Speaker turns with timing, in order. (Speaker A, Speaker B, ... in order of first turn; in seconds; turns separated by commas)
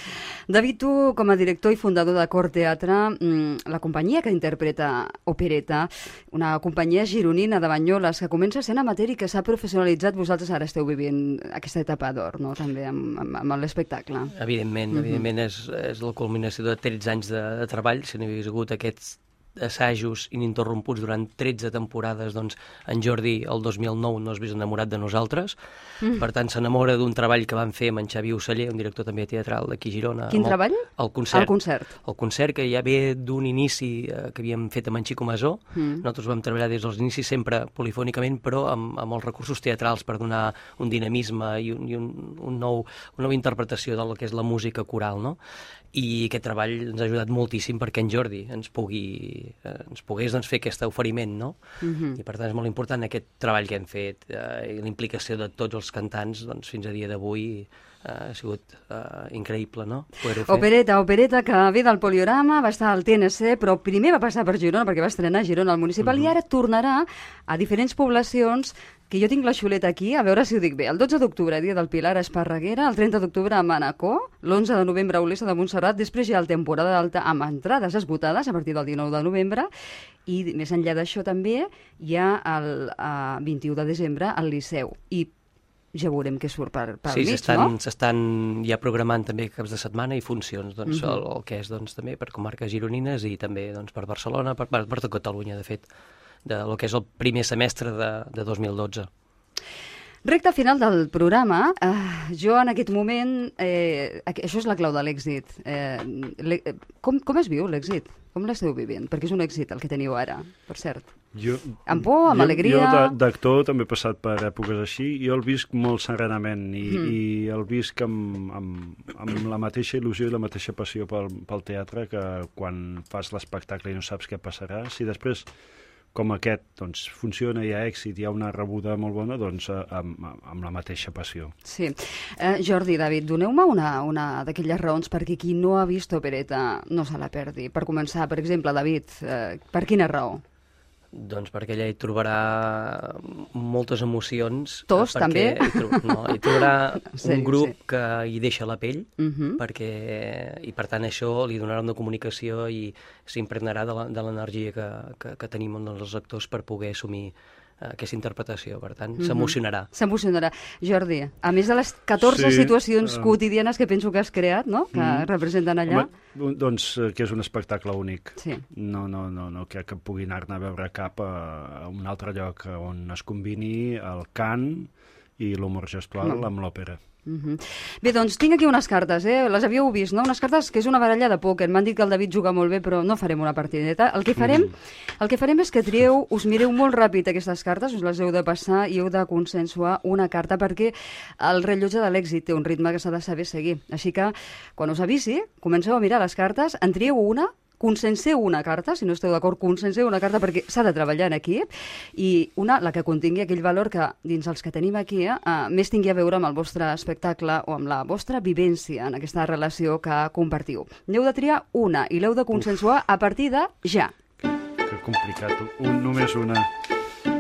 Speaker A: 0.5-14.3, Speaker B: 14.3-25.6, Speaker A: 14.9-15.2, Speaker B: 26.2-45.4, Speaker A: 30.3-32.0, Speaker A: 35.8-36.0, Speaker B: 45.9-51.6, Speaker A: 51.8-52.2, Speaker B: 52.1-60.7, Speaker A: 60.5-79.7, Speaker C: 66.0-66.3, Speaker A: 80.3-85.3, Speaker A: 85.9-87.7, Speaker B: 87.1-95.9, Speaker A: 90.9-91.2, Speaker B: 96.5-99.1, Speaker A: 100.2-111.1, Speaker C: 111.3-125.5, Speaker A: 111.9-113.1, Speaker A: 116.9-117.1, Speaker C: 126.1-131.5, Speaker A: 131.7-140.4, Speaker B: 141.1-159.9, Speaker A: 144.9-147.7, Speaker A: 149.2-149.6, Speaker A: 159.2-166.1, Speaker C: 162.2-163.3, Speaker C: 164.9-165.3, Speaker C: 165.9-177.0, Speaker A: 168.4-168.6, Speaker A: 177.3-214.1, Speaker C: 184.4-184.7, Speaker C: 214.8-216.7